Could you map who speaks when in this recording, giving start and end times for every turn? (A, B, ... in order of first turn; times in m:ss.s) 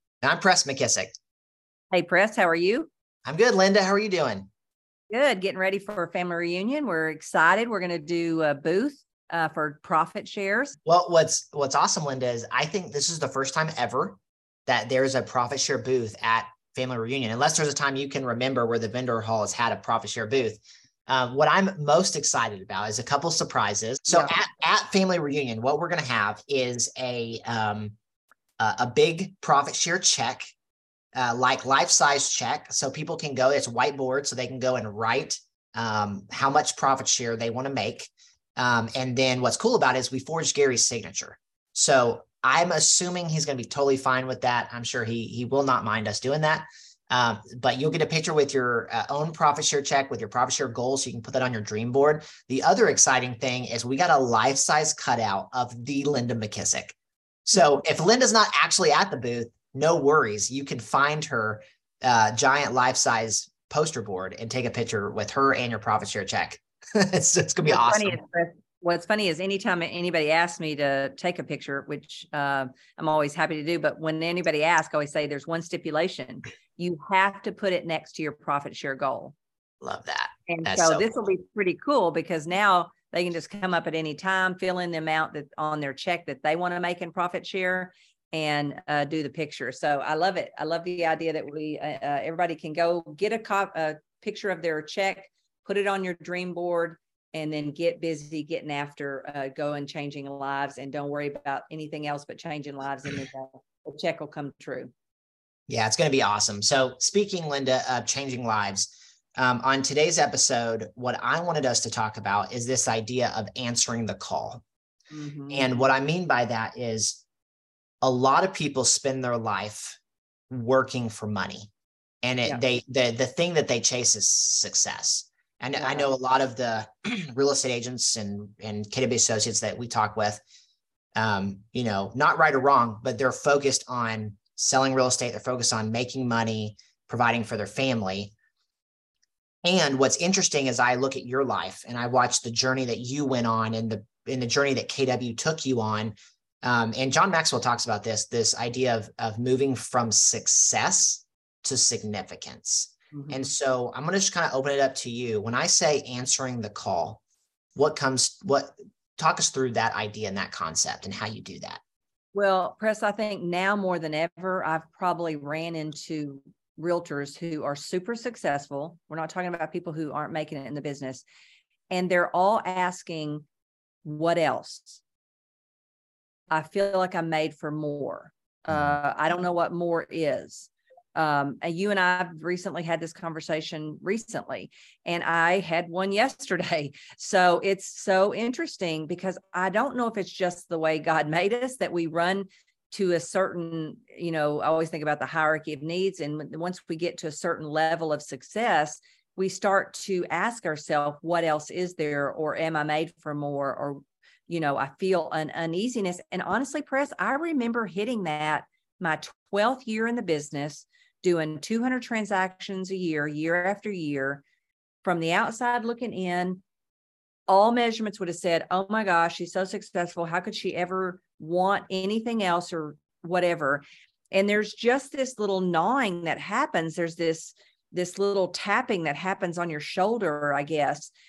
0:00.2-0:01.1 A
0:01.9-0:02.9 B
0:03.2-0:04.5 A
0:05.1-0:10.8 B
0:10.8-0:27.9 A
0:28.6-0:30.5 A
0:31.1-0:57.0 A
0:57.5-1:08.2 A
1:07.6-1:19.3 B
1:19.8-1:21.2 A
1:20.5-1:44.9 B
1:45.7-1:54.6 A
1:55.1-1:55.7 B
1:55.5-1:57.2 A
1:58.0-2:00.0 A
2:00.5-2:01.7 A
2:02.2-2:10.4 A
2:05.8-2:06.1 B
2:11.2-2:18.3 A
2:19.6-2:37.2 A
2:33.1-2:33.5 B
2:37.8-2:41.8 A
2:42.3-2:51.2 B
2:51.9-2:53.4 B
2:54.0-2:55.0 B
2:56.5-3:34.4 B
2:58.7-2:58.9 A
3:35.0-3:36.6 B
3:37.5-3:51.1 B